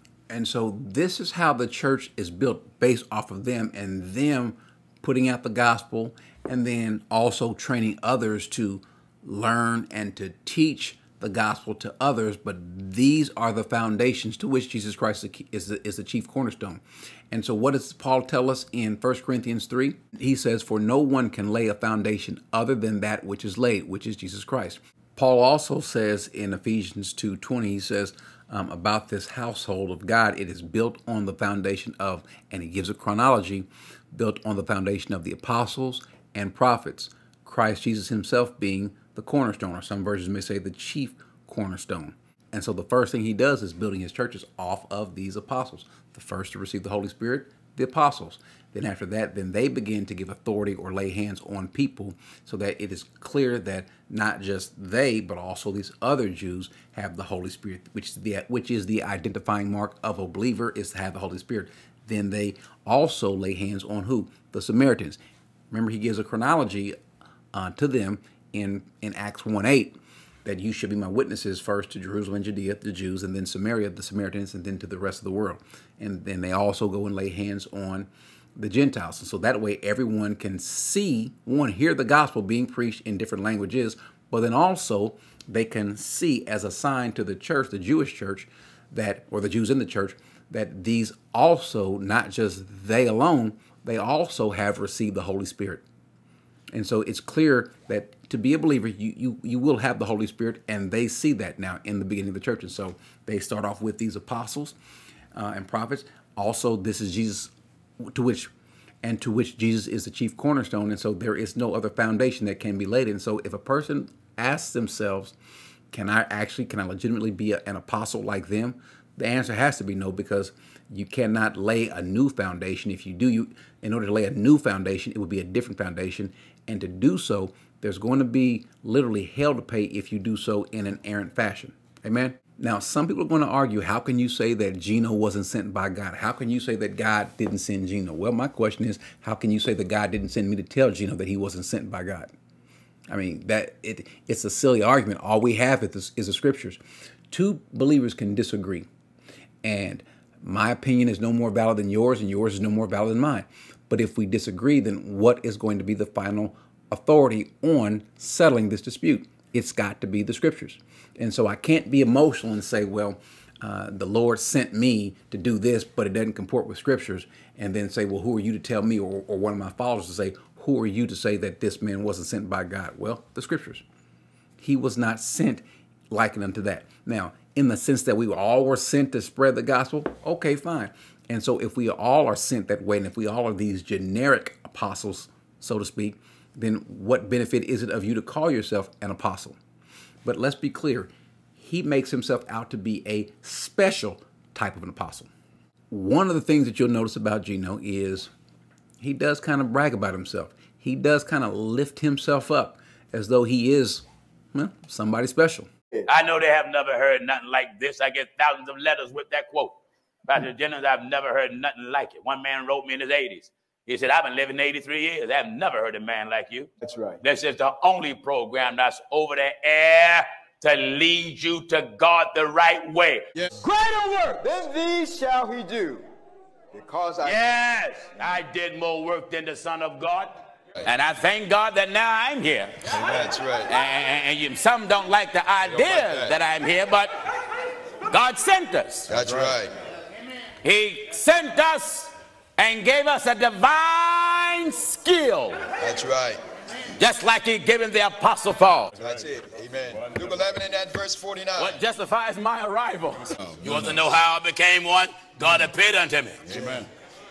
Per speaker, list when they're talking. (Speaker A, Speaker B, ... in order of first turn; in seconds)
Speaker A: 0.3-65.2, 65.7-67.0, 67.5-95.8, 96.7-104.7, 105.3-108.5, 109.0-115.3, 115.9-142.3, 143.1-146.8, 147.3-148.9, 149.6-173.8, 174.6-189.6, 190.2-195.3, 195.9-198.3, 199.0-205.7
Speaker B: 206.1-224.4, 227.2-232.9, 233.7-237.1, 238.1-239.1, 240.6-245.6, 247.0-248.9, 251.6-256.6
Speaker C: 216.8-217.2, 224.4-226.1, 226.7-227.4
Speaker D: 232.9-233.7, 235.8-236.3, 239.1-239.7, 245.8-246.4, 248.9-251.8, 256.5-256.9